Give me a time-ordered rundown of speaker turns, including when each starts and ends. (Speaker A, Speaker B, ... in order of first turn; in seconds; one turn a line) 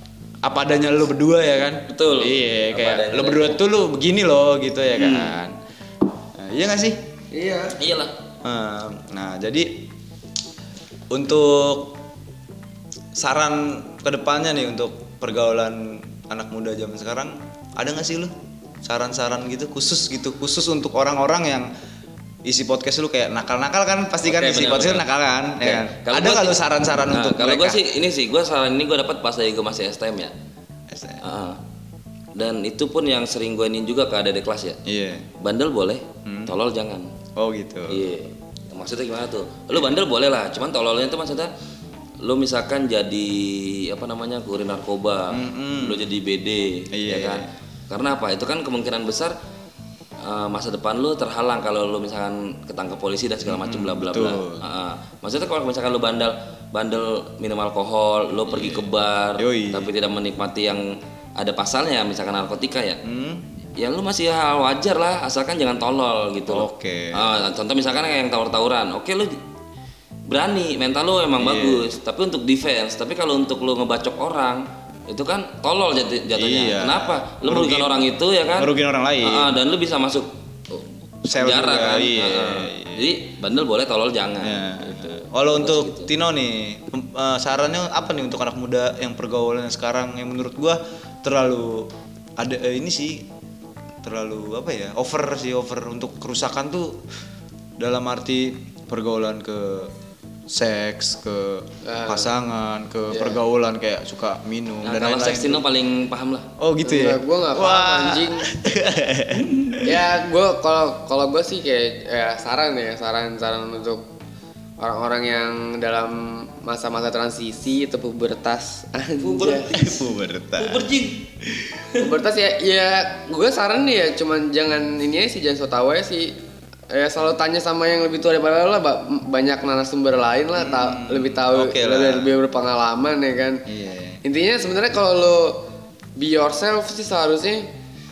Speaker A: 0.4-5.5
Speaker B: 1.9-3.6
Speaker B: 5.0-5.4
Speaker A: 6.4-7.0
Speaker C: 7.3-7.8
Speaker B: 7.8-8.1
Speaker A: 8.4-9.8
Speaker A: 11.1-12.0
Speaker A: 13.2-21.7
Speaker A: 22.4-27.8
Speaker B: 24.3-25.0
Speaker B: 25.6-26.6
Speaker B: 27.1-30.3
Speaker A: 30.9-31.2
Speaker B: 31.2-31.6
Speaker B: 32.4-34.8
Speaker A: 34.9-35.3
Speaker B: 35.4-37.1
Speaker A: 36.2-36.5
Speaker A: 37.4-38.1
Speaker B: 37.9-41.5
Speaker B: 42.2-49.3
Speaker A: 45.3-46.0
Speaker A: 46.9-47.5
Speaker B: 50.2-60.9
Speaker A: 53.5-54.6
Speaker A: 58.5-58.9
Speaker A: 59.4-59.9
Speaker B: 61.4-63.0
Speaker A: 63.0-63.4
Speaker B: 63.8-69.4
Speaker A: 66.5-67.3
Speaker B: 70.3-78.7
Speaker A: 71.4-71.9
Speaker A: 76.3-78.0
Speaker A: 78.6-79.5
Speaker B: 79.2-86.1
Speaker A: 81.3-83.1
Speaker A: 84.4-93.3
Speaker A: 94.0-97.0
Speaker A: 97.8-99.9
Speaker A: 100.5-105.6
Speaker C: 101.8-102.3
Speaker C: 103.1-103.4
Speaker B: 104.8-106.5
Speaker A: 106.6-110.0
Speaker C: 106.8-108.5
Speaker C: 109.8-114.0
Speaker C: 114.8-119.7
Speaker B: 119.2-120.1
Speaker A: 119.7-120.9
Speaker B: 120.6-121.2
Speaker A: 121.4-121.8
Speaker C: 122.0-126.3
Speaker C: 126.9-133.6
Speaker A: 130.6-132.3
Speaker A: 133.7-134.2
Speaker C: 134.2-135.6
Speaker C: 136.2-137.7